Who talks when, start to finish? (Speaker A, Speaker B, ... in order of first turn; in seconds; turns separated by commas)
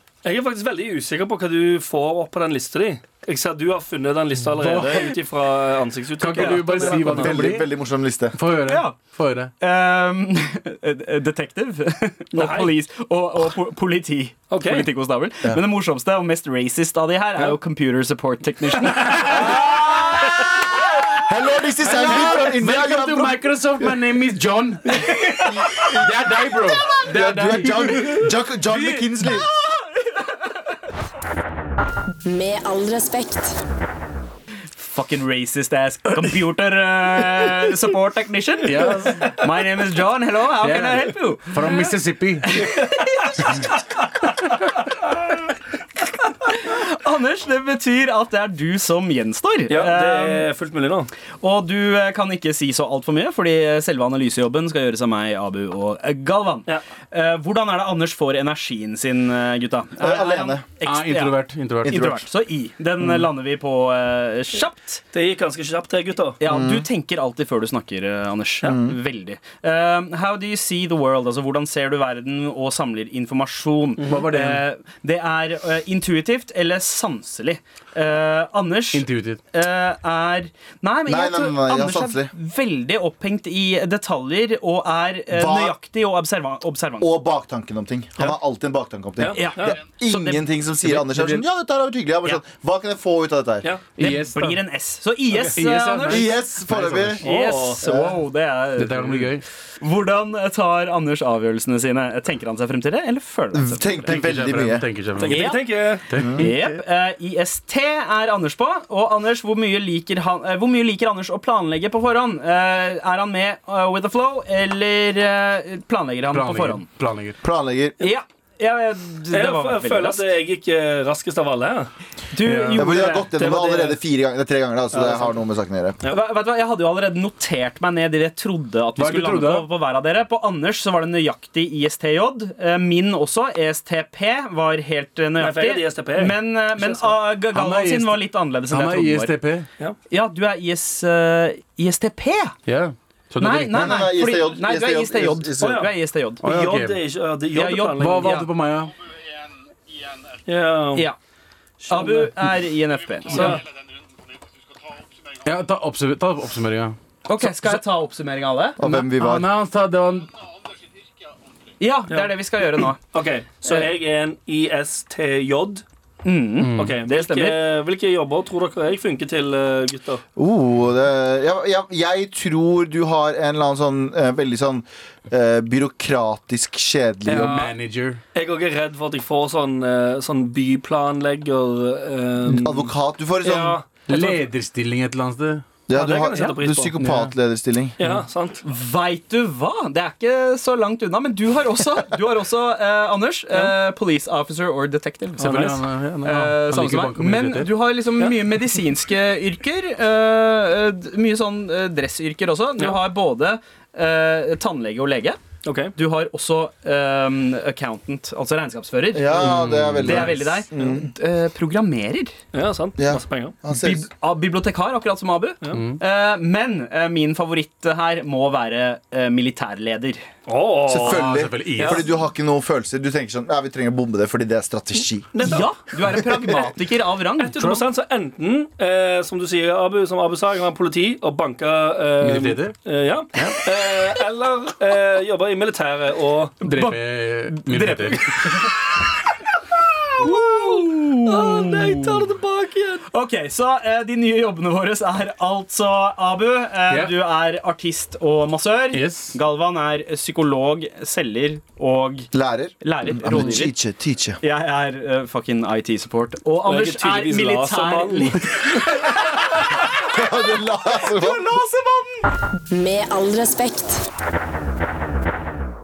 Speaker A: 0.2-7.5, Speaker B: 4.5-5.2, Speaker B: 6.2-7.7, Speaker C: 6.9-8.3, Speaker B: 8.3-9.5, Speaker D: 8.7-9.0, Speaker D: 9.6-20.8, Speaker A: 12.3-12.7, Speaker A: 14.5-14.9, Speaker B: 18.9-20.6, Speaker C: 21.2-23.4, Speaker B: 21.9-28.1, Speaker D: 24.9-25.9, Speaker C: 25.5-26.1, Speaker C: 26.9-29.5, Speaker B: 28.7-29.0, Speaker D: 29.6-30.2, Speaker E: 32.2-33.6, Speaker D: 34.8-41.8, Speaker B: 38.6-39.4, Speaker B: 40.6-42.6, Speaker D: 42.4-43.7, Speaker D: 46.2-50.5, Speaker A: 49.7-51.1, Speaker D: 51.4-65.0, Speaker C: 60.0-60.6, Speaker B: 60.8-62.1, Speaker C: 61.9-62.2, Speaker A: 65.1-66.4, Speaker D: 66.4-87.1, Speaker C: 66.5-66.9, Speaker C: 68.6-69.0, Speaker A: 74.0-74.3, Speaker B: 74.1-74.7, Speaker B: 78.9-79.4, Speaker C: 81.1-82.3, Speaker C: 85.3-85.8, Speaker C: 87.0-93.7, Speaker A: 89.2-89.8, Speaker D: 89.3-90.5, Speaker B: 90.9-91.4, Speaker B: 94.0-94.6, Speaker D: 94.0-96.3, Speaker B: 95.5-97.2, Speaker C: 96.1-97.2, Speaker A: 97.2-97.8, Speaker D: 97.2-104.2, Speaker C: 97.8-98.2, Speaker B: 98.8-99.4, Speaker C: 103.5-104.9, Speaker B: 104.1-105.6, Speaker A: 105.2-106.0, Speaker D: 105.2-105.6, Speaker B: 106.1-106.8, Speaker C: 106.2-106.5, Speaker D: 106.4-116.9, Speaker B: 116.3-117.4, Speaker C: 117.4-118.0, Speaker D: 118.0-120.3, Speaker A: 119.3-121.9, Speaker D: 122.3-123.3, Speaker B: 122.4-123.0, Speaker C: 122.8-126.0, Speaker A: 123.0-124.0, Speaker A: 124.9-125.4, Speaker D: 126.1-139.3, Speaker B: 129.0-129.7, Speaker A: 135.4-137.2, Speaker B: 137.5-139.7, Speaker D: 140.1-142.6, Speaker B: 142.7-144.1, Speaker D: 143.4-146.4, Speaker C: 143.7-145.9, Speaker A: 145.6-145.9, Speaker B: 146.4-147.0, Speaker A: 146.4-148.3, Speaker D: 147.6-148.5, Speaker B: 147.9-149.0, Speaker A: 150.5-151.1, Speaker A: 151.8-152.3, Speaker D: 151.9-153.6, Speaker A: 153.3-153.6, Speaker B: 155.4-157.8, Speaker D: 157.3-158.8, Speaker C: 158.8-159.5, Speaker B: 158.8-160.4, Speaker D: 161.8-163.0, Speaker A: 162.1-165.8, Speaker D: 166.2-167.6, Speaker B: 166.6-166.9, Speaker A: 166.8-170.2, Speaker C: 170.4-177.6, Speaker A: 177.3-177.8, Speaker B: 177.3-178.2, Speaker A: 178.3-184.4, Speaker C: 182.5-183.8, Speaker B: 184.1-185.7, Speaker C: 185.9-187.9, Speaker A: 185.9-186.9, Speaker B: 187.0-187.3, Speaker A: 188.0-188.6, Speaker D: 188.6-205.4, Speaker A: 195.4-195.8, Speaker B: 195.5-197.7, Speaker A: 198.2-198.6, Speaker A: 205.6-205.9, Speaker D: 205.9-212.4, Speaker C: 209.1-211.1, Speaker B: 209.4-210.3, Speaker A: 212.5-213.6, Speaker C: 213.0-214.1, Speaker D: 213.8-220.2, Speaker B: 215.7-216.0, Speaker A: 220.5-222.1, Speaker C: 220.9-225.3, Speaker B: 221.0-222.1, Speaker A: 225.3-225.7, Speaker D: 225.4-227.8, Speaker A: 227.4-236.6, Speaker B: 232.2-232.8, Speaker B: 236.6-238.5, Speaker D: 236.6-238.7, Speaker D: 240.2-242.3, Speaker A: 240.2-243.0, Speaker D: 243.1-252.3, Speaker B: 248.9-249.4, Speaker C: 252.3-254.4, Speaker D: 252.8-253.8, Speaker D: 254.4-262.3, Speaker A: 256.6-258.8, Speaker C: 260.0-261.5, Speaker E: 262.7-264.1